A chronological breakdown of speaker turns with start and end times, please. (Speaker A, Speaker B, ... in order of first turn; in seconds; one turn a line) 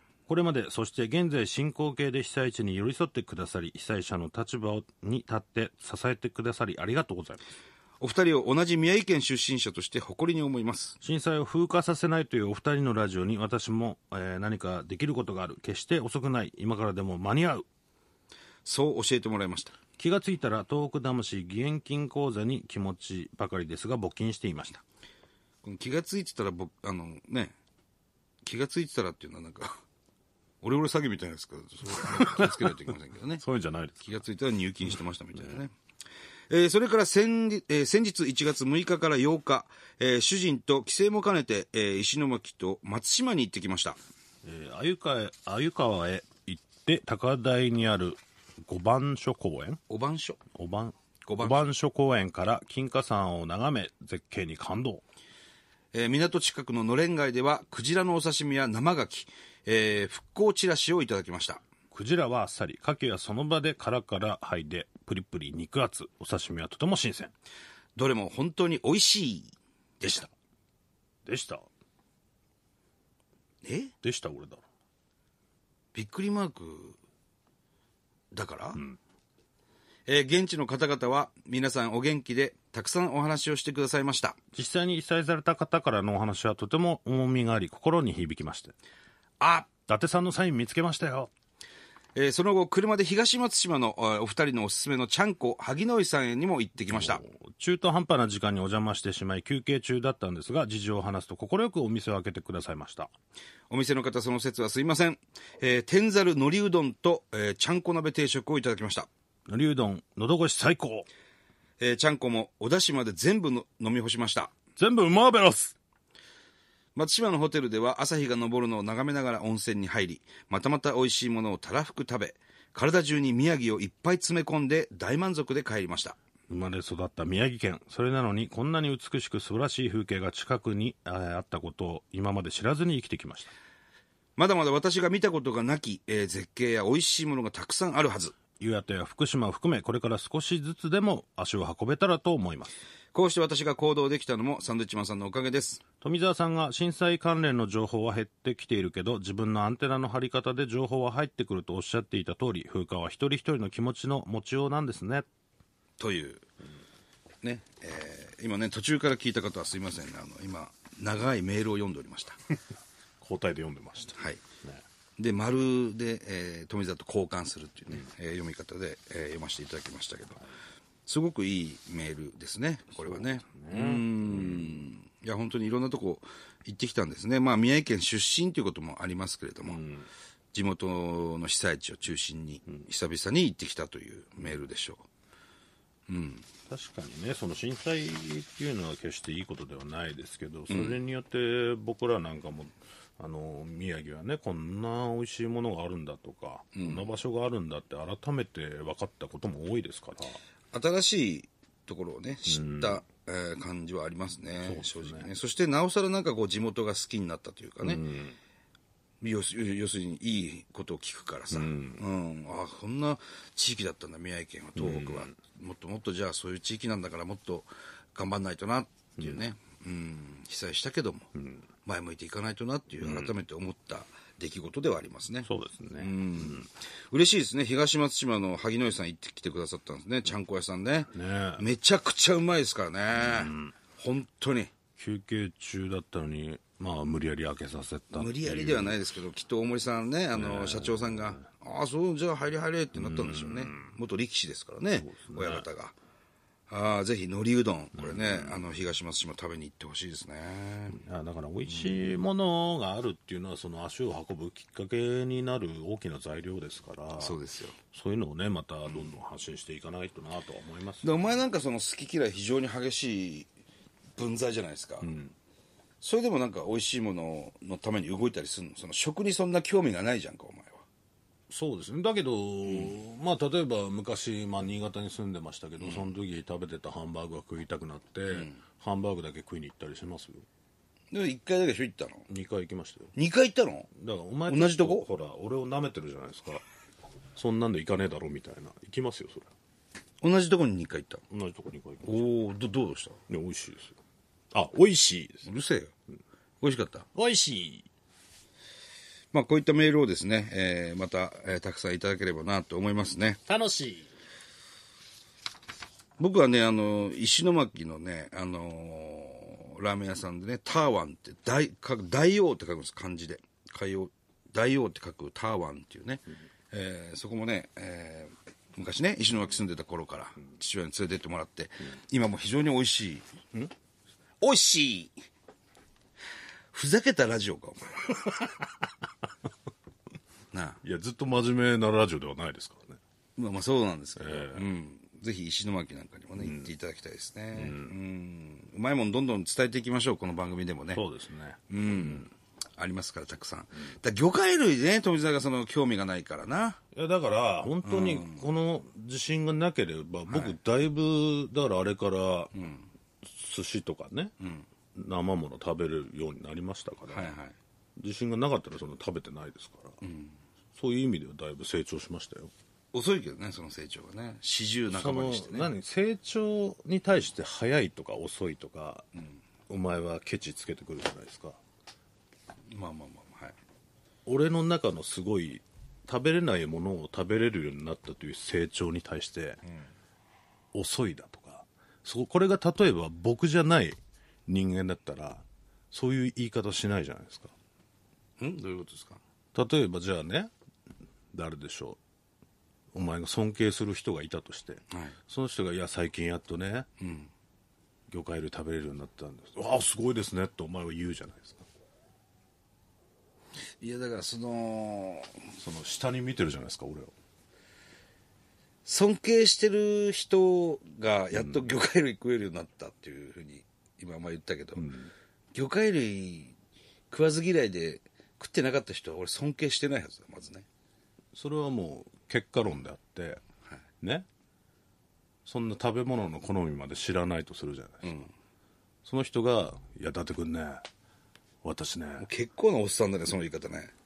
Speaker A: 0.3-7.4
Speaker B: 8.0-11.0
Speaker A: 11.0-17.6
Speaker B: 18.6-19.8
Speaker A: 20.0-24.8
Speaker B: 25.6-27.5
Speaker B: 28.4-29.8
Speaker B: 30.6-33.4
Speaker A: 32.0-32.7
Speaker A: 33.4-34.1
Speaker B: 34.0-35.7
Speaker B: 36.5-44.0
Speaker A: 44.4-49.8
Speaker B: 49.9-50.4
Speaker A: 50.5-55.0
Speaker B: 51.2-51.7
Speaker B: 55.9-61.6
Speaker A: 61.9-67.3
Speaker B: 68.0-70.3
Speaker A: 71.2-71.7
Speaker B: 73.6-73.9
Speaker A: 74.0-74.6
Speaker B: 75.9-77.0
Speaker B: 78.3-78.8
Speaker B: 80.1-84.4
Speaker A: 84.5-88.7
Speaker B: 89.4-89.7
Speaker A: 89.9-91.3
Speaker B: 92.2-97.2
Speaker A: 96.9-103.1
Speaker B: 103.7-109.1
Speaker A: 109.5-111.0
Speaker B: 111.8-114.5
Speaker A: 114.8-115.7
Speaker B: 116.9-126.2
Speaker A: 126.5-133.5
Speaker B: 134.3-138.4
Speaker A: 138.6-142.7
Speaker B: 143.1-145.8
Speaker A: 146.0-155.2
Speaker B: 156.0-156.4
Speaker B: 157.4-162.4
Speaker A: 163.2-164.8
Speaker B: 165.2-170.4
Speaker B: 171.1-179.8
Speaker A: 173.1-174.8
Speaker A: 179.7-180.1
Speaker B: 180.5-185.1
Speaker B: 186.1-186.5
Speaker A: 186.7-200.4
Speaker B: 190.7-191.0
Speaker B: 196.7-197.0
Speaker B: 200.7-208.0
Speaker A: 202.5-203.0
Speaker A: 204.6-205.3
Speaker A: 207.8-208.4
Speaker B: 209.2-221.3
Speaker A: 211.5-212.0
Speaker A: 214.8-215.3
Speaker B: 221.8-234.7
Speaker A: 223.0-223.3
Speaker A: 225.4-226.6
Speaker A: 231.1-231.6
Speaker A: 233.2-233.7
Speaker A: 235.0-239.0
Speaker B: 238.1-245.9
Speaker A: 240.3-241.4
Speaker A: 243.0-243.9
Speaker A: 245.0-245.7
Speaker B: 246.7-251.0
Speaker A: 248.0-248.6
Speaker A: 250.9-257.4
Speaker B: 257.2-257.8
Speaker A: 257.9-261.4
Speaker B: 261.0-263.5
Speaker B: 264.2-265.1
Speaker A: 265.0-265.3
Speaker B: 266.0-270.8
Speaker A: 271.5-280.4
Speaker B: 272.6-272.9
Speaker B: 275.8-276.1
Speaker B: 278.3-278.6
Speaker B: 281.1-282.2
Speaker A: 282.3-283.1
Speaker B: 283.1-283.9
Speaker A: 283.9-286.6
Speaker B: 284.5-285.0
Speaker A: 287.4-289.5
Speaker B: 290.2-291.2
Speaker A: 291.3-292.2
Speaker B: 292.1-293.2
Speaker A: 293.3-293.9
Speaker A: 294.5-295.4
Speaker B: 295.4-295.9
Speaker B: 296.6-297.1
Speaker A: 297.1-297.9
Speaker B: 299.3-303.4
Speaker A: 303.5-304.1
Speaker B: 306.2-323.3
Speaker B: 324.4-325.1
Speaker B: 326.7-328.2
Speaker B: 330.5-330.8
Speaker A: 330.8-333.0
Speaker B: 333.4-341.0
Speaker A: 334.2-334.6
Speaker A: 336.4-336.7
Speaker A: 337.6-337.9
Speaker A: 340.9-342.2
Speaker B: 341.7-346.8
Speaker A: 346.9-352.5
Speaker B: 347.8-348.4
Speaker B: 350.3-350.6
Speaker B: 352.5-352.9
Speaker A: 353.2-354.3
Speaker B: 354.4-354.7
Speaker A: 354.9-357.3
Speaker B: 357.1-357.6
Speaker A: 358.0-360.0
Speaker B: 360.0-360.4
Speaker A: 360.7-362.5
Speaker B: 362.9-365.7
Speaker A: 364.9-369.1
Speaker A: 369.7-371.6
Speaker B: 372.7-373.6
Speaker A: 374.2-379.6
Speaker A: 380.7-387.5
Speaker B: 388.4-389.2
Speaker A: 389.5-390.5
Speaker A: 391.3-392.0
Speaker A: 392.9-396.9
Speaker B: 397.0-397.3
Speaker A: 398.1-401.6
Speaker B: 403.8-405.4
Speaker A: 405.6-407.1
Speaker B: 408.9-414.9
Speaker A: 414.8-415.1
Speaker B: 415.5-416.5
Speaker B: 417.1-420.6
Speaker A: 421.3-423.4
Speaker A: 425.4-428.2
Speaker B: 428.0-428.3
Speaker A: 429.0-430.8
Speaker A: 431.6-432.2
Speaker B: 432.2-433.9